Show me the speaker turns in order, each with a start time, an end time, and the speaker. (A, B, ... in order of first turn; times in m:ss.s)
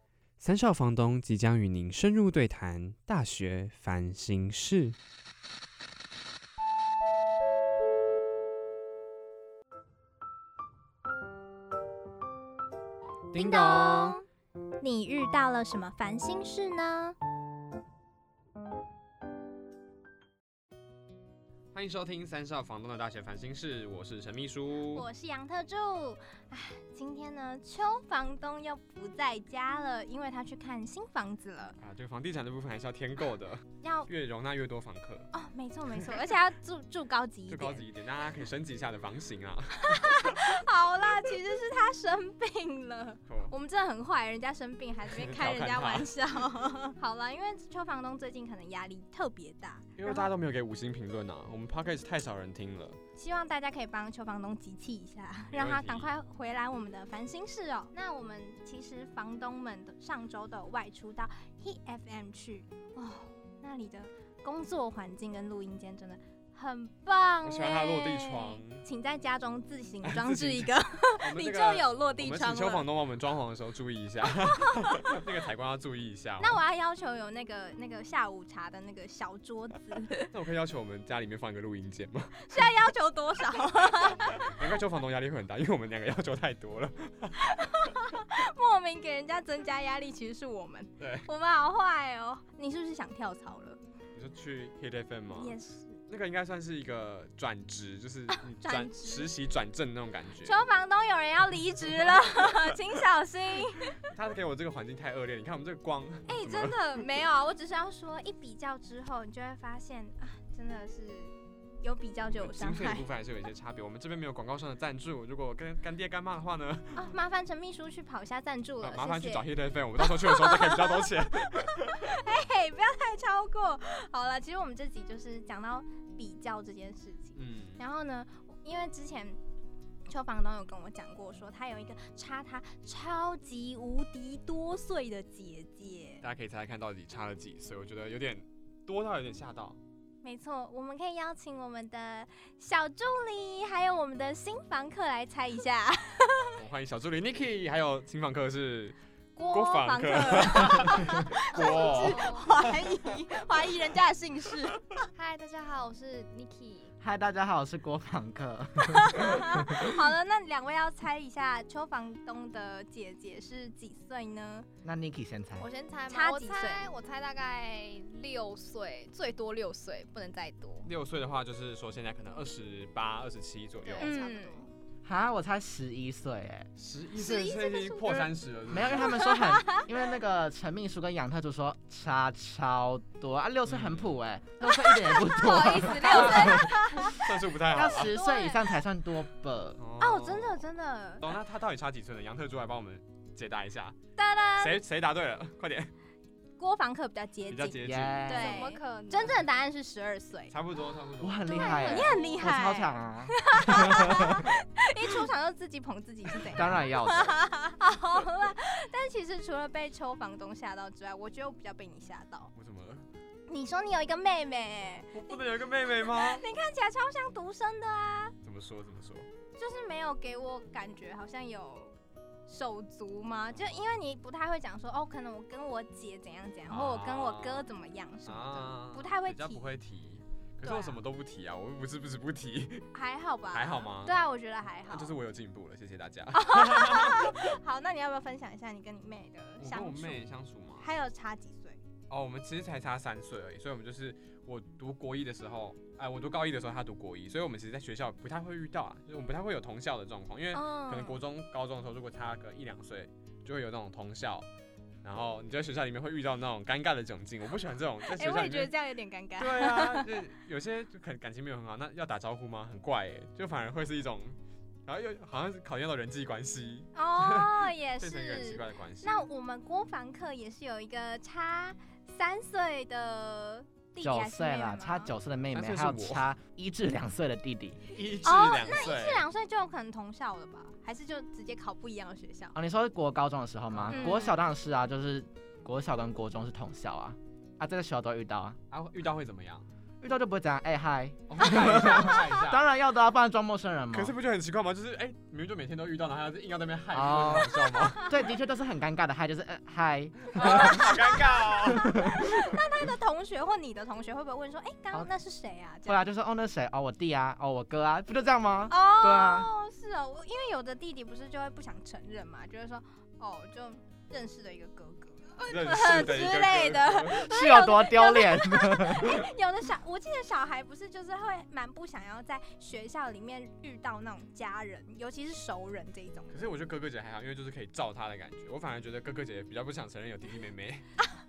0:00.4-0:05.0 A
0:13.3-0:14.2 A
0:13.4-0:14.2 B
0:14.8-0:17.2 B
0:21.7-0:25.1 A
0:24.9-0:31.8 B
0:31.8-0:35.3 A
0:33.8-0:34.1 B
0:35.3-0:37.8 B
0:37.5-0:40.4 A
0:39.8-0:50.3 B
0:43.3-0:43.5 A
0:45.1-0:46.1 A
0:50.0-0:53.0 A
0:53.2-1:12.9 B
0:55.5-0:56.1 A
1:07.4-1:08.8 A
1:10.0-1:10.7 A
1:11.2-1:16.6 A
1:16.4-1:20.3 B
1:20.3-1:22.6 A
1:22.4-1:24.5 B
1:24.4-1:27.4 A
1:27.4-1:33.8 B
1:31.0-1:31.3 A
1:34.2-1:35.6 A
1:35.4-1:36.0 B
1:36.1-1:40.6 A
1:38.3-1:39.3 B
1:40.4-1:44.0 B
1:44.1-1:46.8 A
1:46.3-1:53.0 B
1:52.4-1:57.1 A
1:57.0-1:59.5 B
1:58.8-2:02.1 A
2:00.0-2:01.1 B
2:01.6-2:09.4 B
2:07.4-2:07.8 A
2:10.1-2:16.2 B
2:16.2-2:19.8 A
2:20.2-2:26.6 B
2:26.6-2:29.0 A
2:29.4-2:34.8 B
2:29.5-2:32.5 A
2:31.6-2:32.4 C
2:35.1-2:36.9 C
2:37.0-2:40.0 D
2:38.8-2:44.7 B
2:44.8-2:45.7 D
2:45.6-2:50.9 C
2:46.1-2:46.9 B
2:50.8-2:54.1 A
2:53.8-2:54.7 C
2:54.0-2:54.6 B
2:55.0-2:56.7 D
2:56.8-2:59.3 A
2:57.2-2:58.3 B
2:58.7-3:06.7 D
2:58.9-2:59.9 B
3:03.7-3:04.2 A
3:04.6-3:07.2 B
3:05.3-3:06.8 C
3:06.1-3:08.1 A
3:07.7-3:09.8 D
3:08.1-3:08.6 B
3:09.8-3:10.7 A
3:10.0-3:11.3 B
3:11.2-3:14.0 A
3:14.2-3:14.8 B
3:14.6-3:15.9 A
3:16.6-3:20.5 B
3:17.5-3:18.2 A
3:17.8-3:18.6 D
3:18.3-3:19.4 C
3:20.5-3:21.5 A
3:21.2-3:24.5 D
3:21.5-3:32.5 B
3:21.5-3:22.4 C
3:26.5-3:26.8 A
3:26.6-3:27.4 D
3:32.6-3:33.1 A
3:33.5-3:38.4 B
3:35.1-3:36.4 A
3:38.4-3:39.3 A
3:39.6-3:42.0 B
3:42.5-3:49.6 B
3:43.5-3:43.9 A
3:46.7-3:47.7 A
3:48.3-3:52.9 A
3:50.6-3:51.0 B
3:52.9-3:55.2 B
3:53.5-3:54.2 A
3:54.9-3:57.6 A
3:56.3-4:00.2 B
3:59.6-4:00.9 A
4:00.8-4:01.8 B
4:02.1-4:14.5 A
4:10.5-4:11.2 B
4:15.0-4:18.7 A
4:18.1-4:20.1 B
4:19.4-4:29.1 A
4:27.0-4:35.1 B
4:34.0-4:37.9 D
4:35.5-4:36.3 A
4:37.9-4:39.2 A
4:38.2-4:42.6 B
4:42.6-4:48.6 D
4:43.7-4:44.1 A
4:43.9-4:44.4 B
4:48.7-4:49.7 A
4:50.0-4:54.1 D
4:51.3-4:52.6 A
4:53.9-4:58.1 A
4:56.9-5:00.9 D
5:00.3-5:02.0 A
5:00.4-5:06.0 B
5:01.7-5:02.3 D
5:05.9-5:09.5 D
5:08.7-5:26.3 B
5:15.5-5:17.2 A
5:17.2-5:19.3 D
5:26.3-5:30.9 A